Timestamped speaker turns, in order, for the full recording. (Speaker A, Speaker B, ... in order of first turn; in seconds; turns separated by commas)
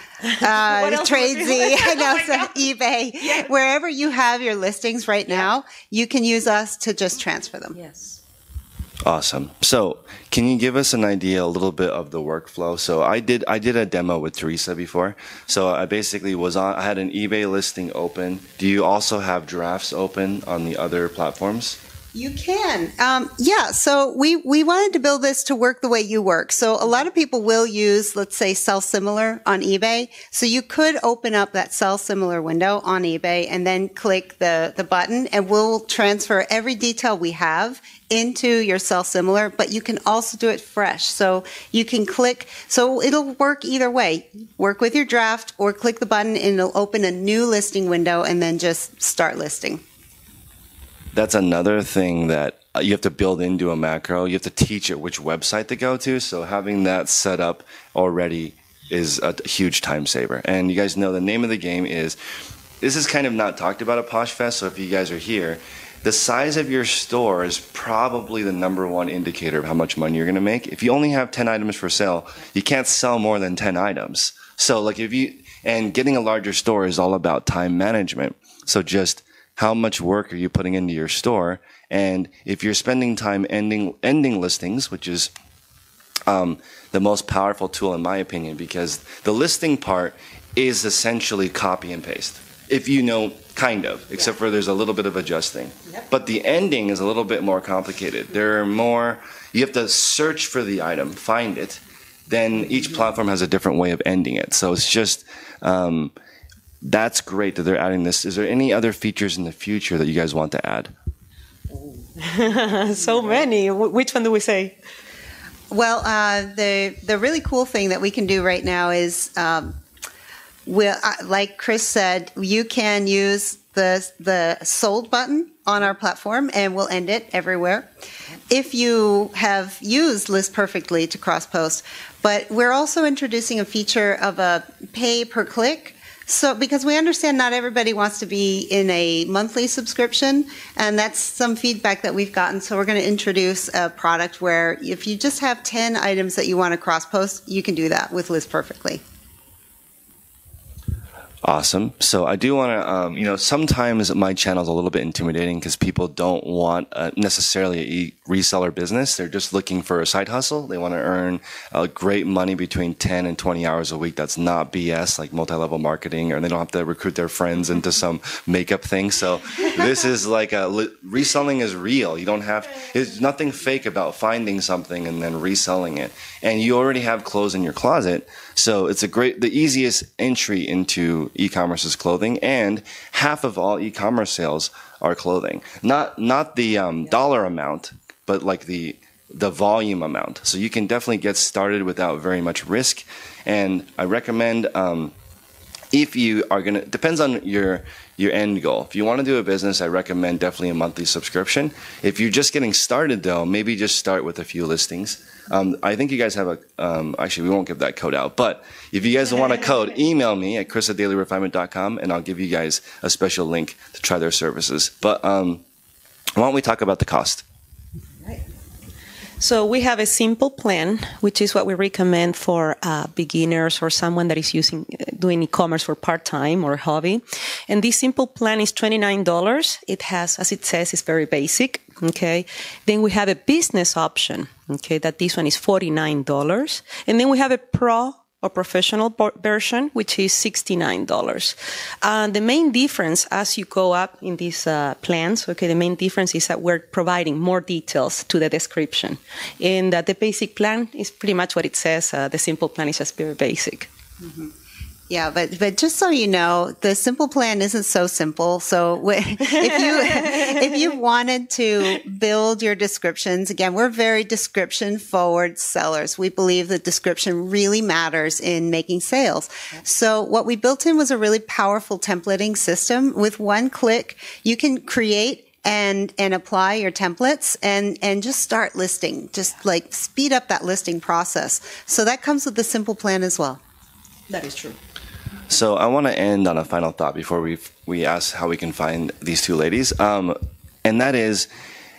Speaker A: 0.2-2.6, Speaker B: 0.4-7.8, Speaker A: 3.2-3.5, Speaker A: 7.7-8.2, Speaker C: 9.0-21.8, Speaker B: 22.1-49.8, Speaker C: 51.1-62.2, Speaker C: 62.8-85.3, Speaker C: 86.3-106.1, Speaker C: 106.8-110.9, Speaker A: 112.2-114.7, Speaker B: 115.7-119.8, Speaker B: 120.7-127.9, Speaker B: 128.5-149.0, Speaker C: 151.4-195.1, Speaker C: 195.9-215.6, Speaker C: 216.3-217.4, Speaker A: 219.4-253.9, Speaker B: 254.2-254.5, Speaker B: 255.1-283.6, Speaker A: 259.6-260.6, Speaker A: 284.3-284.8, Speaker C: 285.5-291.5